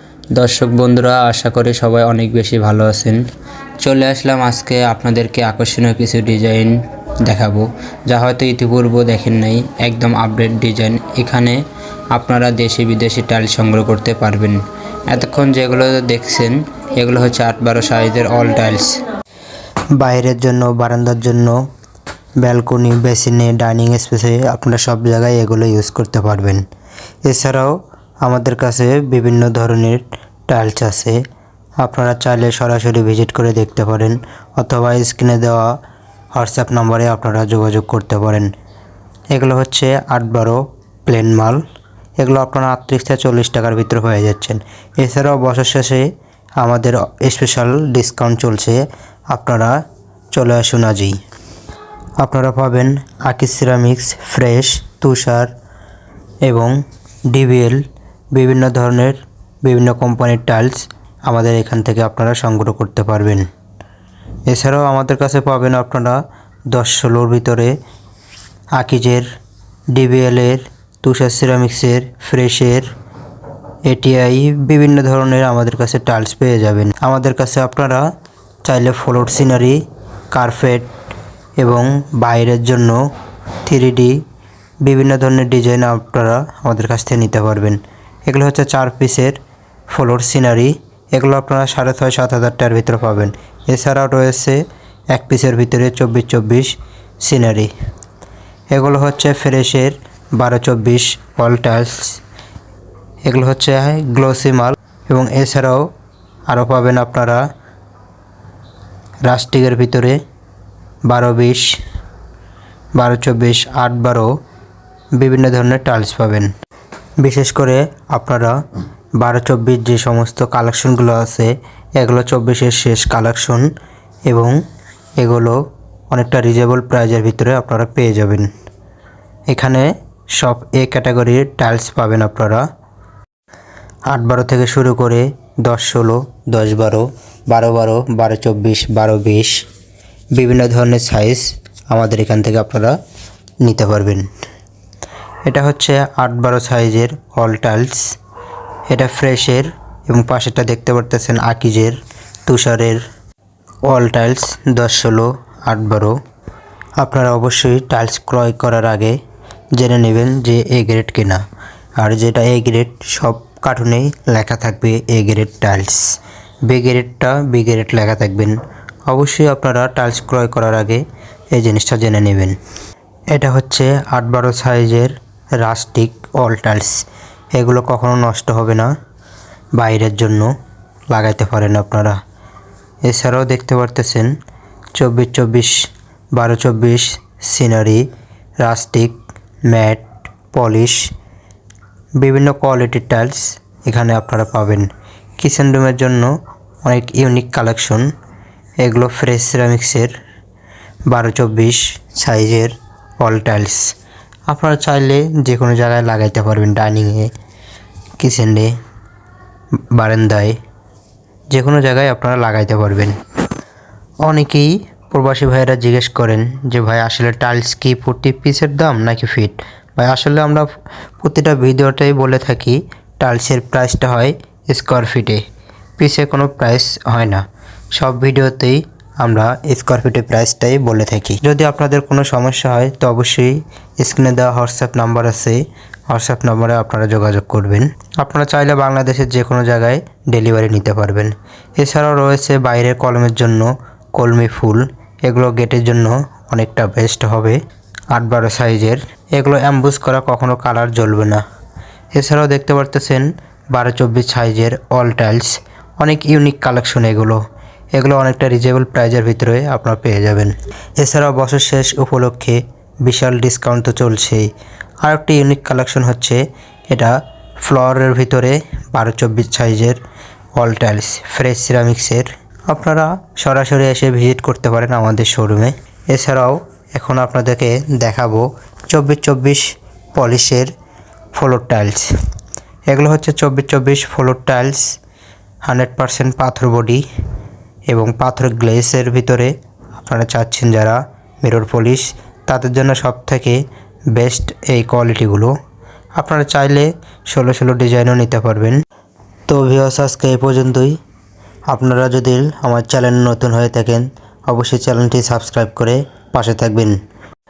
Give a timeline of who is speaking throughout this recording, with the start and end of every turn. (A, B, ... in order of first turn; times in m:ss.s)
0:00.4-0:03.2 A
0:00.5-0:02.8 B
0:03.8-0:06.7 A
0:04.6-0:06.6 B
0:07.3-0:11.6 A
0:08.1-0:11.2 B
0:12.2-0:14.5 B
0:12.2-0:14.6 A
0:15.1-0:15.8 A
0:15.3-0:16.6 B
0:16.5-0:17.7 A
0:17.2-0:18.8 B
0:18.3-0:18.9 A
0:20.0-0:21.6 B
0:22.4-0:26.6 B
0:27.2-0:31.2 B
0:31.8-0:35.7 B
0:36.3-0:38.5 B
0:39.3-0:41.6 B
0:42.2-0:46.1 B
0:46.6-0:49.7 B
0:50.3-0:51.2 B
0:52.2-0:55.5 B
0:56.4-0:56.7 B
0:57.3-0:57.8 B
0:58.3-1:03.5 B
1:04.5-1:06.2 B
1:06.7-1:07.7 B
1:08.8-1:09.3 B
1:09.9-1:12.9 B
1:13.9-1:18.0 B
1:18.7-1:19.8 B
1:20.3-1:20.9 B
1:21.6-1:23.0 B
1:23.7-1:24.2 B
1:24.8-1:29.4 B
1:29.9-1:34.6 B
1:35.1-1:37.7 B
1:38.7-1:42.2 B
1:43.3-1:45.8 B
1:46.5-1:47.4 B
1:49.3-1:50.2 B
1:51.1-1:51.7 B
1:53.0-1:54.3 B
1:55.2-1:56.5 B
1:57.2-1:58.6 B
1:59.2-2:03.7 B
2:04.3-2:04.5 B
2:05.2-2:08.5 B
2:09.5-2:12.6 B
2:14.1-2:19.6 B
2:20.4-2:23.0 B
2:23.6-2:24.3 B
2:25.5-2:28.1 B
2:28.9-2:33.0 B
2:33.9-2:36.2 B
2:37.0-2:39.2 B
2:39.8-2:41.4 B
2:42.0-2:46.0 B
2:46.7-2:51.0 B
2:51.5-2:52.6 B
2:53.3-2:57.0 B
2:57.5-2:58.9 B
2:59.8-3:00.5 B
3:01.1-3:02.2 B
3:03.1-3:04.3 B
3:05.0-3:05.8 B
3:06.4-3:08.0 B
3:08.6-3:09.2 B
3:09.7-3:11.1 B
3:12.2-3:16.3 B
3:16.9-3:18.1 B
3:18.8-3:20.1 B
3:21.1-3:23.9 B
3:24.5-3:27.3 B
3:28.2-3:28.7 B
3:29.9-3:30.6 B
3:31.5-3:33.2 B
3:34.2-3:40.7 B
3:41.2-3:45.4 B
3:46.0-3:47.4 B
3:48.0-4:07.6 B
4:08.1-4:11.4 B
4:12.2-4:17.4 B
4:17.9-4:24.5 B
4:25.0-4:30.0 B
4:30.6-4:39.6 B
4:40.2-4:40.7 B
4:41.4-4:42.1 B
4:42.9-4:44.8 B
4:45.7-4:47.0 B
4:47.9-4:49.5 B
4:50.1-4:53.6 B
4:54.1-4:55.5 B
4:56.2-4:58.8 B
4:59.5-5:01.0 B
5:01.7-5:07.0 B